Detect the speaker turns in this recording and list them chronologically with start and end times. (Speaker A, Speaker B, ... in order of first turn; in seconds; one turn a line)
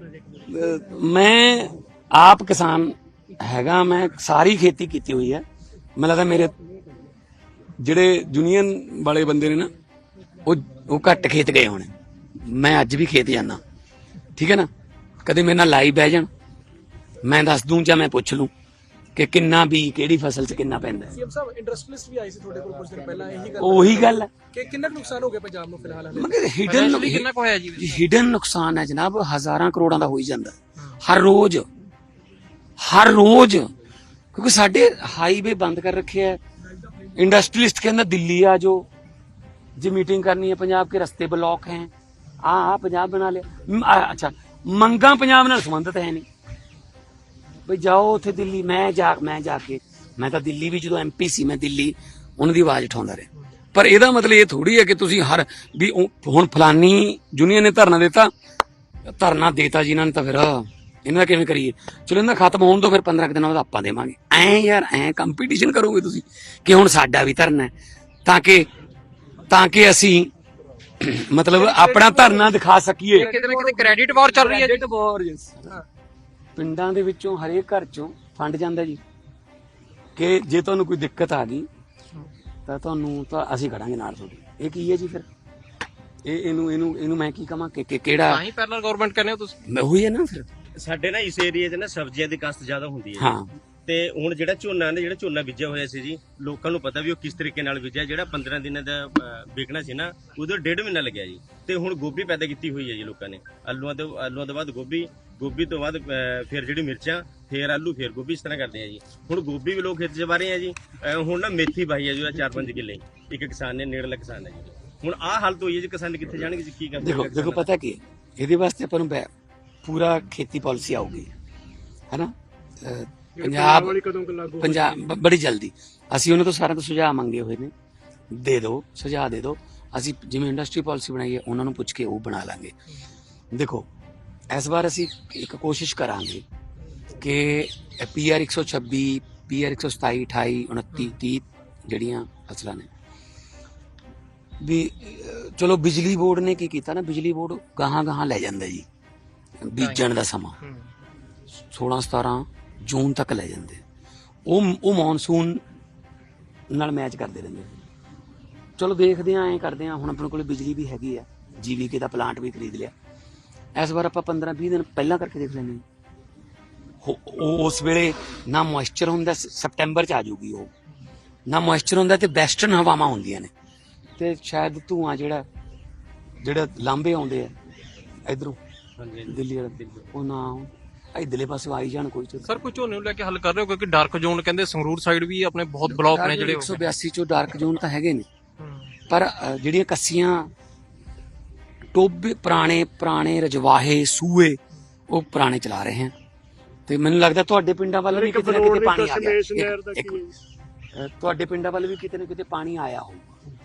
Speaker A: 0.5-5.4
Speaker A: 6.0-6.5
Speaker A: 7.8-9.7
Speaker A: 10.4-13.6
Speaker A: 14.4-14.7
Speaker A: 15.2-16.3
Speaker A: 17.2-18.5
Speaker A: 19.1-21.2
Speaker B: 21.1-26.3
Speaker A: 23.6-24.3
Speaker A: 26.1-31.6
Speaker C: 26.6-28.0
Speaker A: 32.8-33.7
Speaker A: 34.3-36.4
Speaker A: 37.1-38.9
Speaker A: 39.8-41.9
Speaker A: 42.4-46.2
Speaker A: 47.6-58.3
Speaker A: 59.1-67.7
Speaker A: 68.2-68.7
Speaker A: 69.5-70.3
Speaker A: 71.0-73.3
Speaker B: 71.5-72.5
Speaker C: 73.1-74.8
Speaker B: 73.2-74.0
Speaker A: 74.3-75.7
Speaker A: 76.6-79.0
Speaker A: 80.2-81.7
Speaker A: 82.7-85.2
Speaker A: 86.2-88.4
Speaker C: 88.2-89.6
Speaker A: 89.7-90.5
Speaker D: 90.8-93.3
Speaker A: 93.2-93.5
Speaker D: 93.8-117.7
Speaker A: 117.0-119.3
Speaker A: 119.8-121.3
Speaker A: 122.1-124.0
Speaker E: 123.4-125.0
Speaker A: 124.5-127.7
Speaker A: 128.3-132.7
Speaker A: 133.5-133.9
Speaker A: 134.5-136.4
Speaker A: 137.2-142.9
Speaker A: 144.6-148.8
Speaker A: 149.6-150.5
Speaker C: 149.8-150.0
Speaker C: 150.6-150.9
Speaker A: 151.6-153.8
Speaker A: 154.4-155.6
Speaker A: 156.7-157.7
Speaker A: 158.8-162.9
Speaker A: 163.8-165.8
Speaker A: 167.0-170.7
Speaker A: 171.5-173.5
Speaker A: 174.2-175.4
Speaker A: 176.4-177.5
Speaker A: 178.2-178.6
Speaker D: 179.0-180.1
Speaker A: 179.3-182.6
Speaker C: 182.4-186.8
Speaker A: 185.9-188.2
Speaker C: 188.6-188.9
Speaker A: 189.1-190.5
Speaker A: 191.9-194.6
Speaker A: 195.1-196.1
Speaker A: 196.9-200.2
Speaker E: 198.1-200.3
Speaker A: 200.9-203.3